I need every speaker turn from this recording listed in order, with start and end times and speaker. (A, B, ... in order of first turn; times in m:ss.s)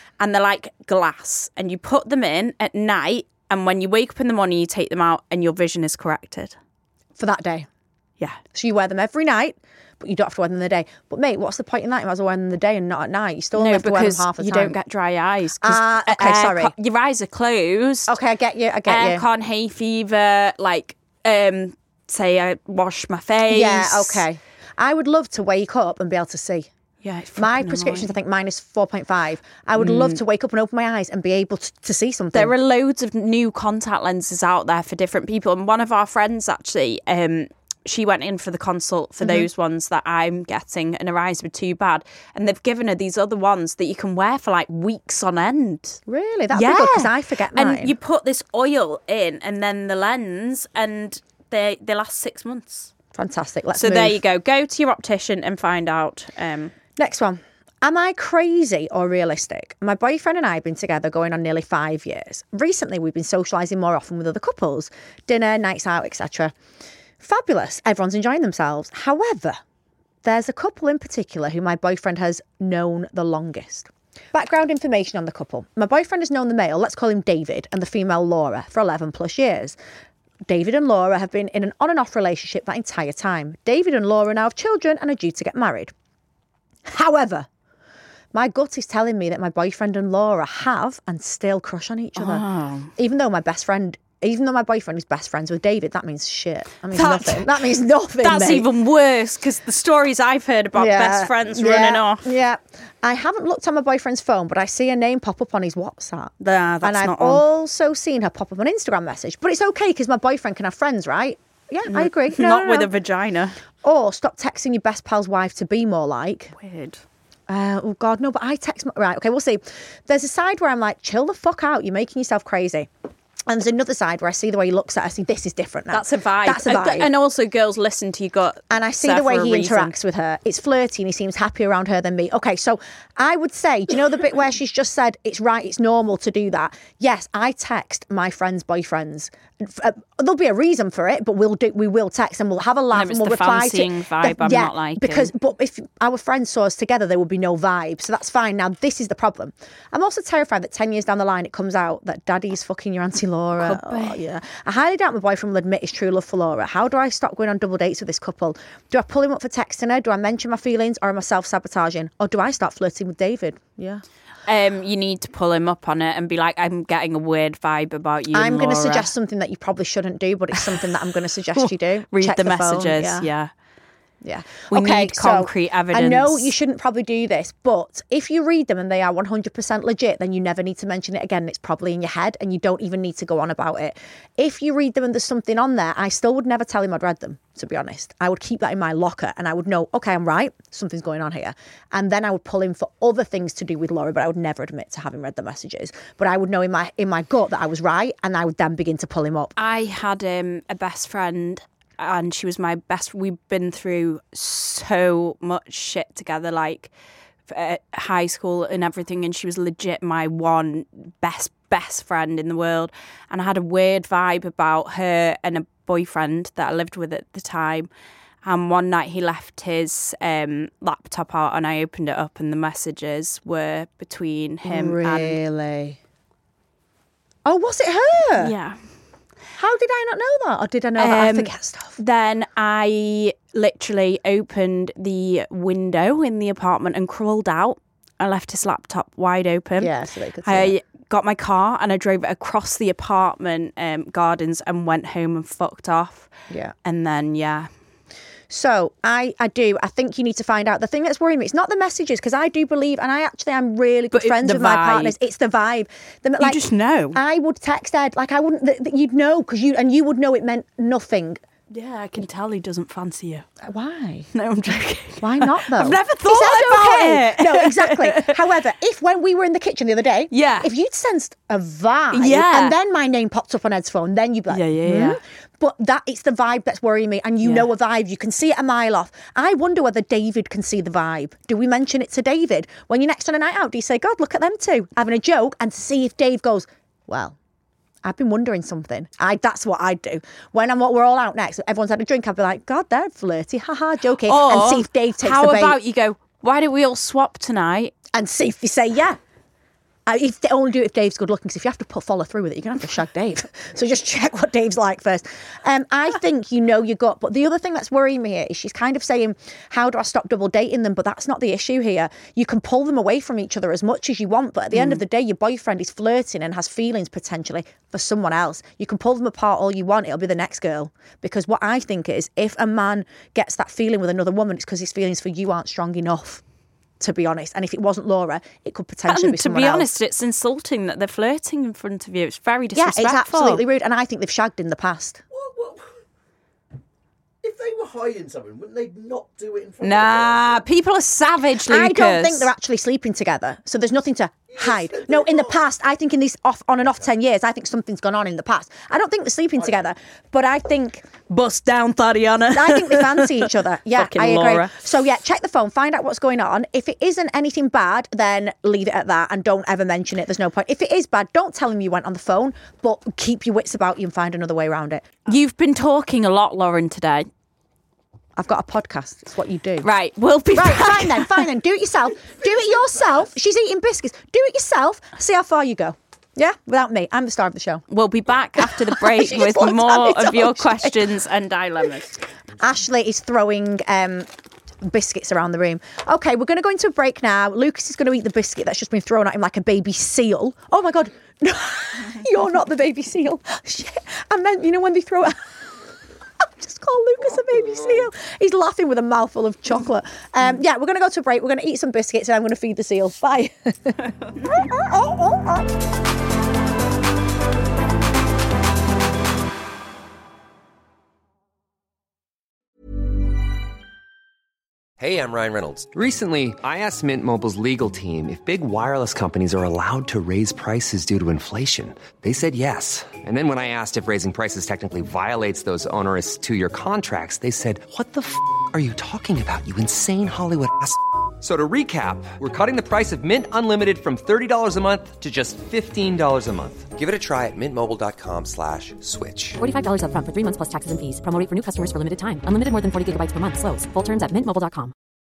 0:00.2-0:06.6 A
0:07.2-0:07.7 B
0:08.5-0:14.8 B
0:13.6-0:18.1 A
0:15.6-0:16.7 B
0:18.1-0:19.2 B
0:18.9-0:24.2 A
0:23.5-0:26.7 B
0:27.0-0:28.1 A
0:27.4-0:32.5 B
0:29.8-0:30.2 A
0:32.3-0:46.0 A
0:39.2-0:39.5 B
0:46.1-0:48.0 B
0:46.5-0:52.9 A
0:53.1-0:54.2 B
0:53.8-0:56.7 A
0:57.0-1:06.5 B
1:07.2-1:09.6 B
1:10.2-1:19.8 B
1:20.5-1:25.9 B
1:26.9-1:27.5 B
1:28.3-1:32.4 B
1:32.2-1:32.9 A
1:33.0-1:38.7 B
1:36.9-1:37.5 A
1:38.2-1:42.3 A
1:40.8-1:52.9 B
1:46.4-1:47.4 A
1:51.9-1:53.6 A
1:53.8-1:56.5 B
1:56.5-1:57.0 A
1:57.5-2:02.9 B
2:03.5-2:07.1 B
2:05.9-2:10.0 A
2:08.7-2:44.0 B
2:22.9-2:25.3 A
2:33.6-2:34.2 A
2:44.5-2:49.1 A
2:48.3-2:53.3 B
2:51.6-2:53.5 A
2:54.2-3:19.6 B
2:54.7-2:56.5 A
3:19.6-3:26.9 A
3:27.5-3:37.9 A
3:38.4-3:45.4 A
3:44.6-3:46.0 B
3:47.4-3:48.5 B
3:48.4-3:48.8 A
3:49.6-3:52.0 B
3:51.0-3:59.9 A
3:59.8-4:00.8 B
4:00.4-4:06.3 A
4:06.8-4:07.7 A
4:08.5-4:21.4 B
4:14.1-4:15.1 A
4:16.4-4:17.2 A
4:21.7-4:23.5 A
4:23.6-4:24.3 B
4:24.3-4:28.4 A
4:25.2-4:47.4 B
4:30.3-4:30.7 A
4:32.1-4:32.8 A
4:34.5-4:35.2 A
4:48.0-4:55.8 B
4:54.3-4:57.9 A
4:58.1-4:59.2 B
5:00.1-5:26.4 B
5:14.7-5:15.0 A
5:27.0-5:29.9 B
5:29.1-5:33.6 A
5:32.8-5:35.2 B
5:35.3-5:36.0 C
5:37.4-5:40.6 C
5:39.8-5:42.5 A
5:41.7-5:51.1 B
5:44.5-5:45.5 C
5:51.3-5:54.8 A
5:52.5-6:05.1 B
6:05.3-6:07.3 A
6:08.4-6:09.9 B
6:09.8-6:11.5 A
6:10.6-6:17.8 B
6:17.9-6:22.1 A
6:18.6-6:21.1 B
6:22.6-6:24.3 B
6:24.8-6:35.6 B
6:36.4-6:45.7 B
6:55.0-7:19.6 D
7:19.6-7:24.9 E